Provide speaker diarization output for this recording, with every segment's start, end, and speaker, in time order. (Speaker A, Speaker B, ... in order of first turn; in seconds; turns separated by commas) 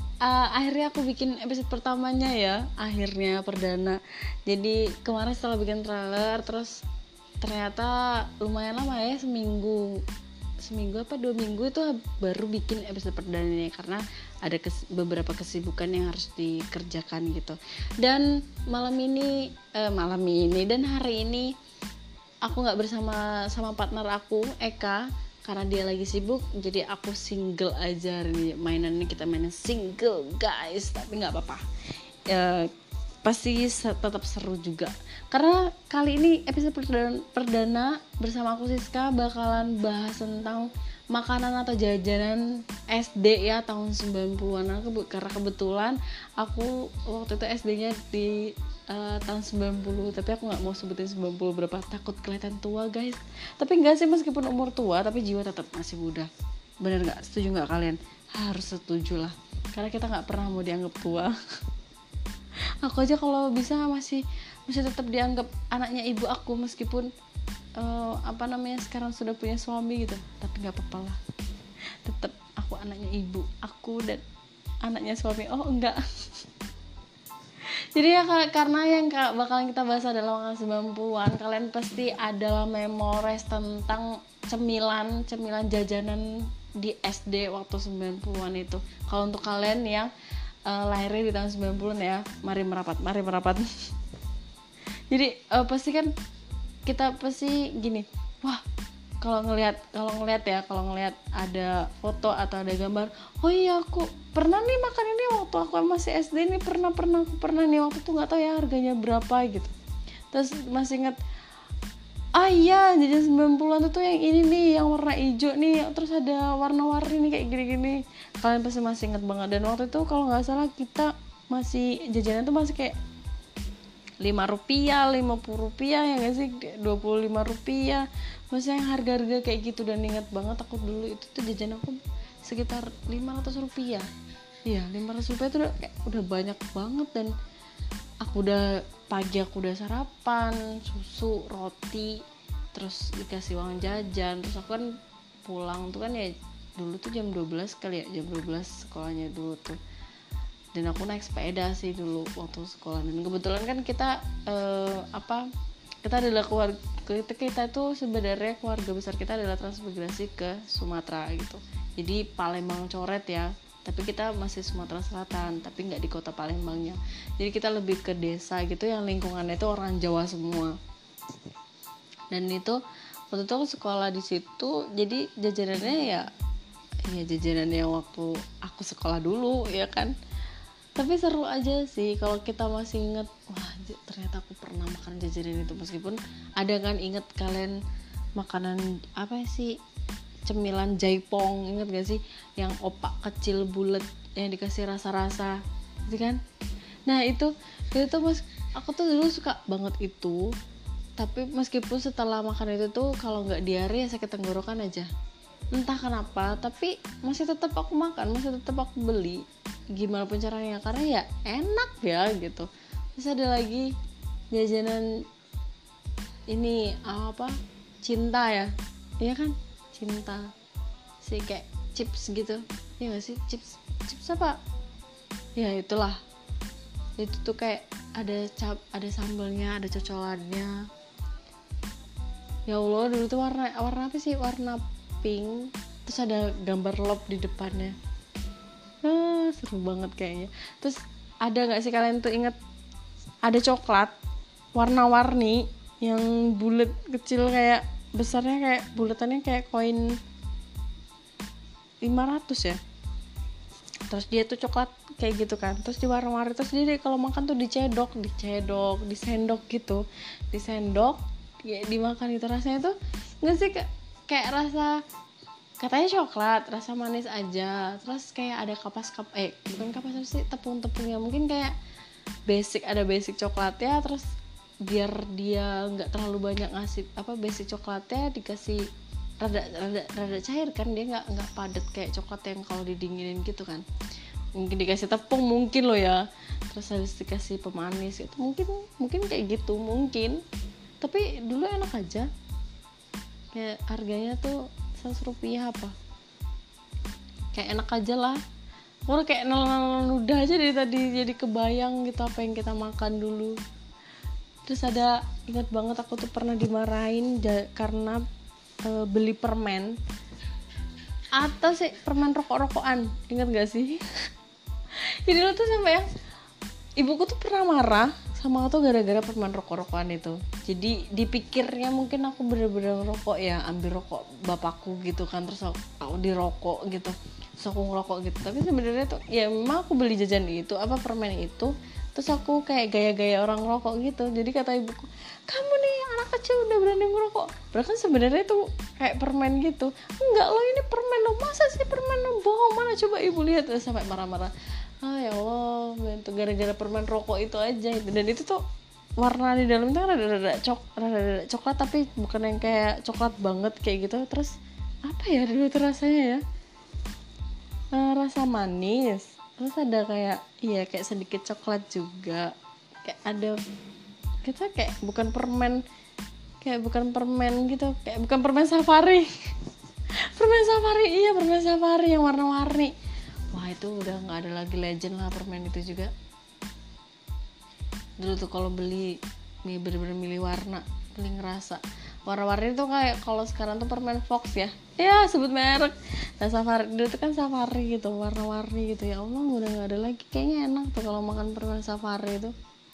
Speaker A: 0.2-6.8, Speaker A: 7.4-10.0, Speaker A: 10.6-21.5, Speaker A: 22.4-31.6, Speaker A: 32.3-32.7, Speaker A: 33.2-56.3, Speaker A: 56.8-61.4, Speaker A: 62.8-67.1, Speaker A: 67.8-71.2, Speaker A: 72.0-74.2, Speaker A: 74.8-76.5, Speaker A: 77.9-90.1, Speaker A: 90.7-93.7, Speaker A: 95.1-96.1, Speaker A: 96.9-98.6, Speaker A: 99.2-109.7, Speaker A: 110.3-111.2, Speaker A: 112.3-123.0, Speaker A: 124.2-134.1, Speaker A: 134.7-137.3, Speaker A: 138.2-142.2, Speaker A: 142.7-144.9, Speaker A: 145.5-149.8, Speaker A: 150.7-155.5, Speaker A: 156.0-170.8, Speaker A: 172.3-176.3, Speaker A: 177.1-180.2, Speaker A: 181.0-187.8, Speaker A: 188.4-189.8, Speaker A: 190.4-196.4, Speaker A: 197.1-200.5, Speaker A: 201.2-205.1, Speaker A: 205.7-213.9, Speaker A: 214.5-215.2, Speaker A: 216.5-220.5, Speaker A: 221.2-224.6, Speaker A: 225.6-226.2, Speaker A: 227.2-230.8, Speaker A: 232.7-238.0, Speaker A: 239.0-242.6, Speaker A: 243.4-244.1, Speaker A: 244.8-250.2, Speaker A: 252.0-252.8, Speaker A: 254.1-265.0, Speaker A: 265.8-271.8, Speaker A: 272.5-274.3, Speaker A: 274.8-278.8, Speaker A: 279.4-283.9, Speaker A: 284.6-290.4, Speaker A: 291.0-292.3, Speaker A: 293.5-295.9, Speaker A: 297.5-298.4, Speaker A: 299.1-303.6, Speaker A: 304.6-308.2, Speaker A: 308.9-309.9, Speaker A: 311.4-314.0, Speaker A: 315.2-316.1, Speaker A: 317.0-348.6, Speaker A: 349.2-354.6, Speaker A: 355.1-356.4, Speaker A: 357.9-363.6, Speaker A: 364.4-365.8, Speaker A: 366.6-369.3, Speaker A: 370.3-372.9, Speaker A: 373.5-376.1, Speaker A: 378.2-392.5